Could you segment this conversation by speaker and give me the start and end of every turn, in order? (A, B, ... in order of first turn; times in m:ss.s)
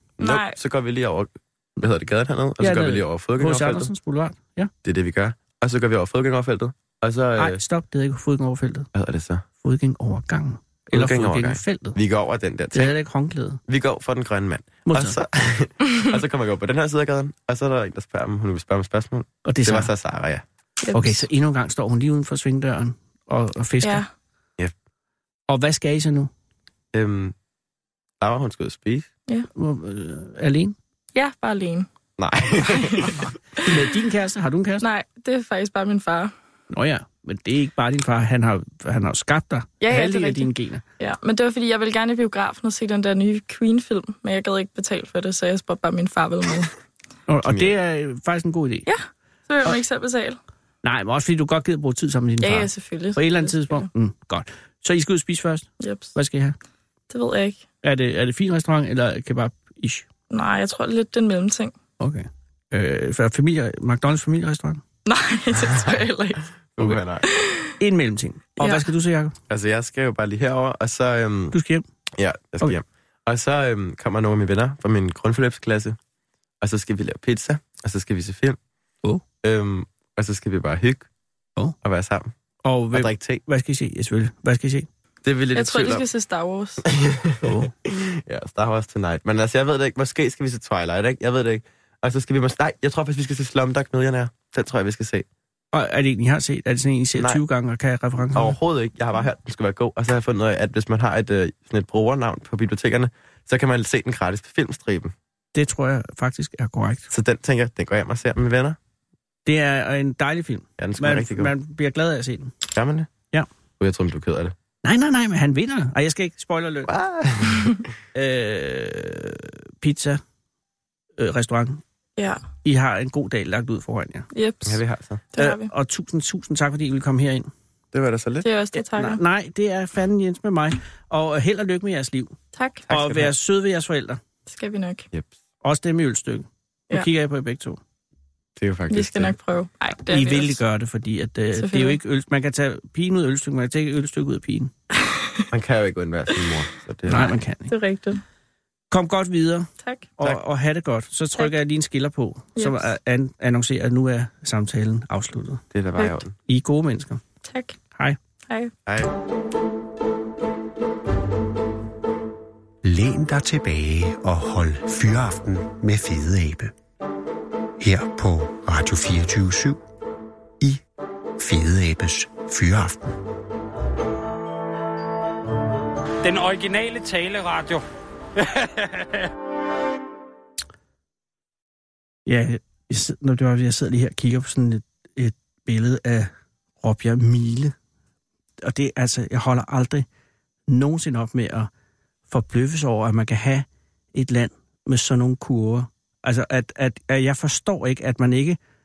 0:00.2-0:03.9 A
0:00.2-0:00.6 B
0:02.6-0:04.7 C
0:04.8-0:07.6 A
0:07.4-0:08.9 C
0:08.9-0:09.4 A
0:09.6-0:12.0 C
0:10.9-0:13.0 A
0:12.7-0:13.6 C
0:13.7-0:20.4 A
0:14.9-0:15.2 C
0:19.4-0:19.9 C
0:20.8-0:21.2 B
0:20.9-0:24.0 C
0:23.8-0:24.1 B
0:25.5-0:26.3 C
0:26.9-0:27.4 A
0:28.2-0:29.1 A
0:29.6-0:30.8 C
0:31.2-0:31.9 B
0:32.2-0:33.2 A
0:32.7-0:33.1 B
0:33.6-0:34.8 C
0:34.8-0:36.3 B
0:36.7-0:40.8 C
0:39.8-0:46.7 B
0:47.3-0:48.9 C
0:47.4-0:47.7 A
0:48.9-0:50.4 B
0:50.8-0:56.6 C
0:52.4-0:53.9 B
0:55.8-0:56.1 B
0:57.1-0:57.6 B
0:57.8-1:00.0 C
1:00.3-1:01.7 B
1:02.0-1:04.8 C
1:05.1-1:06.5 B
1:05.6-1:06.0 A
1:06.8-1:07.3 A
1:07.2-1:07.7 B
1:07.8-1:09.4 C
1:08.6-1:08.9 B
1:09.5-1:11.6 A
1:11.5-1:11.8 C
1:12.2-1:16.0 A
1:16.6-1:18.6 A
1:19.4-1:21.1 A
1:21.8-1:22.3 A
1:22.6-1:24.9 C
1:22.9-1:23.4 A
1:25.2-1:26.1 A
1:25.6-1:26.8 B
1:26.8-1:35.3 A
1:27.4-1:27.7 C
1:35.7-1:38.6 C
1:38.3-1:45.1 A
1:45.6-1:47.1 C
1:47.1-1:48.8 A
1:49.5-1:52.5 C
1:50.8-1:51.5 A
1:52.7-1:53.1 A
1:53.8-1:54.6 A
1:54.8-1:56.9 C
1:56.8-1:57.8 A
1:58.2-2:00.2 C
2:01.2-2:01.8 C
2:02.2-2:02.4 B
2:02.6-2:04.3 C
2:04.3-2:04.8 B
2:04.6-2:05.2 A
2:05.3-2:05.7 B
2:05.4-2:07.5 C
2:07.9-2:08.5 A
2:08.4-2:09.2 B
2:08.8-2:12.4 C
2:12.6-2:12.8 B
2:12.9-2:13.3 A
2:12.9-2:14.2 C
2:14.5-2:15.1 B
2:15.6-2:17.8 C
2:18.6-2:19.4 A
2:18.9-2:20.6 B
2:20.1-2:24.7 C
2:21.6-2:22.0 B
2:25.1-2:25.4 B
2:25.5-2:27.3 A
2:27.1-2:27.7 C
2:27.1-2:28.2 B
2:28.9-2:35.6 C
2:32.6-2:32.9 B
2:35.7-2:36.4 A
2:36.5-2:37.2 C
2:37.4-2:37.8 B
2:38.9-2:39.1 A
2:42.8-2:46.7 D
2:47.8-2:49.8 D
2:51.4-2:53.2 D
2:56.2-2:57.8 E
2:58.4-2:59.3 E
3:02.3-3:06.3 C
3:06.8-3:07.7 C
3:08.6-3:10.0 C
3:10.7-3:11.7 C
3:12.3-3:18.6 C